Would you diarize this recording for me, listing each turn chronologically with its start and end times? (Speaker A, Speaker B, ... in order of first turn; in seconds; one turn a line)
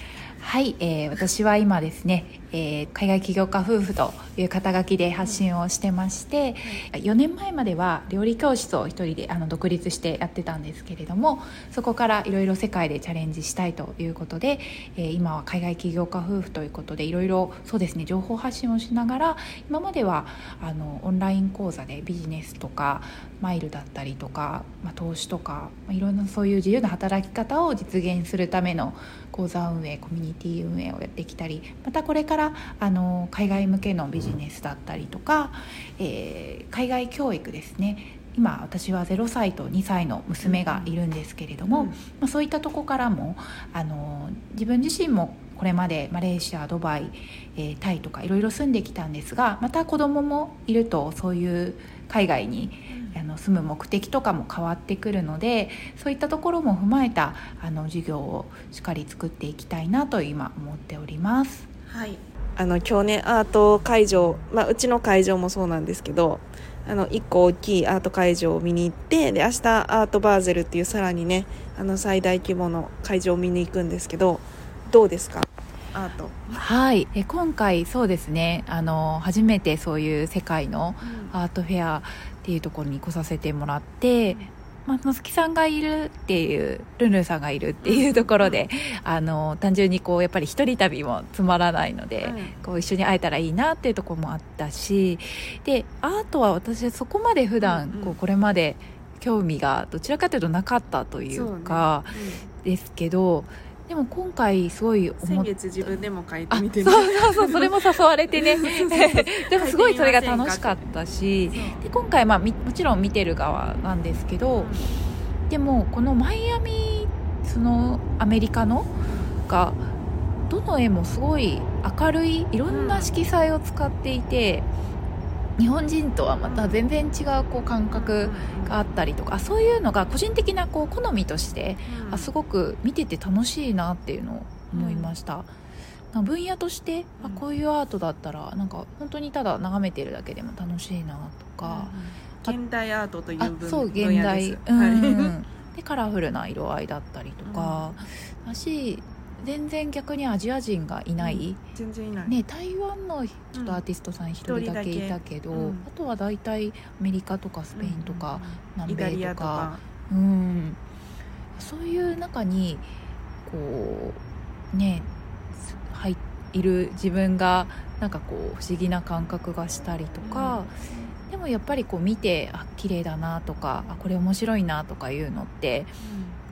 Speaker A: 0.4-61.7
Speaker B: 40.4-41.0
Speaker B: 41.7-42.0
Speaker B: 52.9-53.2
Speaker B: 61.9-76.6
Speaker A: 76.5-114.7
Speaker B: 81.0-81.4
Speaker B: 87.8-88.6
Speaker B: 92.2-92.6
Speaker B: 97.6-98.2
Speaker B: 101.3-102.5
Speaker B: 105.2-107.7
Speaker B: 108.3-110.8
Speaker B: 111.5-111.8
Speaker B: 114.6-114.9
Speaker A: 115.5-118.9
Speaker A: 119.5-119.9
Speaker A: 120.5-124.7
Speaker B: 122.7-123.1
Speaker A: 125.6-135.5
Speaker B: 126.4-126.8
Speaker B: 127.9-128.8
Speaker B: 131.9-132.3
Speaker B: 134.7-135.2
Speaker A: 136.1-142.6
Speaker B: 137.2-137.4
Speaker B: 141.6-145.4
Speaker A: 143.4-151.6
Speaker B: 147.5-147.9
Speaker B: 151.2-152.4
Speaker A: 152.3-160.8
Speaker B: 153.6-153.8
Speaker B: 154.4-155.9
Speaker B: 157.8-159.8
Speaker A: 161.6-162.9
Speaker A: 163.5-164.2
Speaker A: 164.7-170.8
Speaker B: 170.2-170.7
Speaker A: 171.3-176.0
Speaker B: 176.0-176.4